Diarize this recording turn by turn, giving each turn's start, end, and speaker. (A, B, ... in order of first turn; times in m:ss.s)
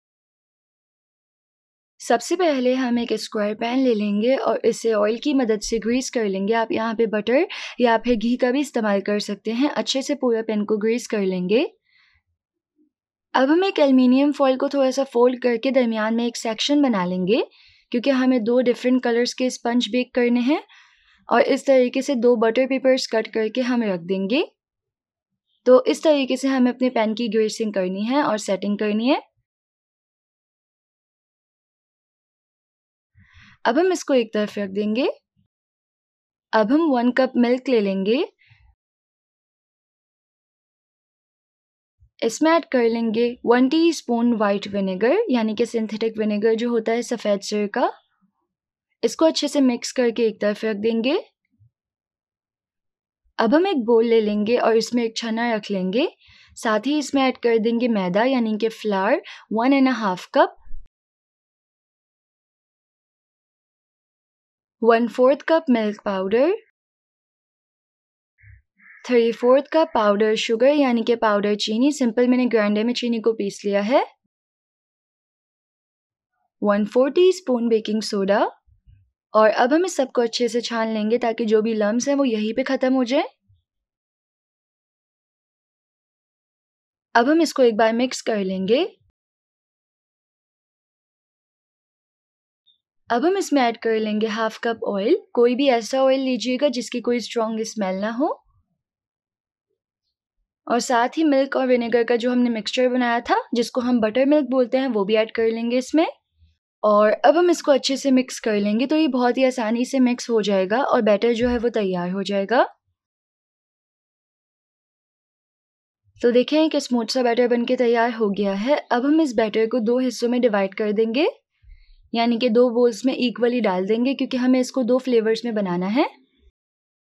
0:02.0-0:11.7 A
0:13.4-0:20.6 A
0:21.3-0:24.4 A
0:25.6-0:29.2 A
0:33.7-0:35.1 A
0:36.6-0:38.3 A
0:42.2-0:47.9 A
0:49.0-0:51.2 A
0:53.4-1:00.6 A
1:04.8-1:06.6 A
1:09.0-1:14.0 A
1:16.6-1:18.5 A
1:19.4-1:23.3 A
1:27.2-1:28.9 A
1:33.1-1:38.4 A
1:40.7-1:46.1 A
1:46.8-1:52.7 A
1:56.2-2:01.3 A
2:02.1-2:06.1 A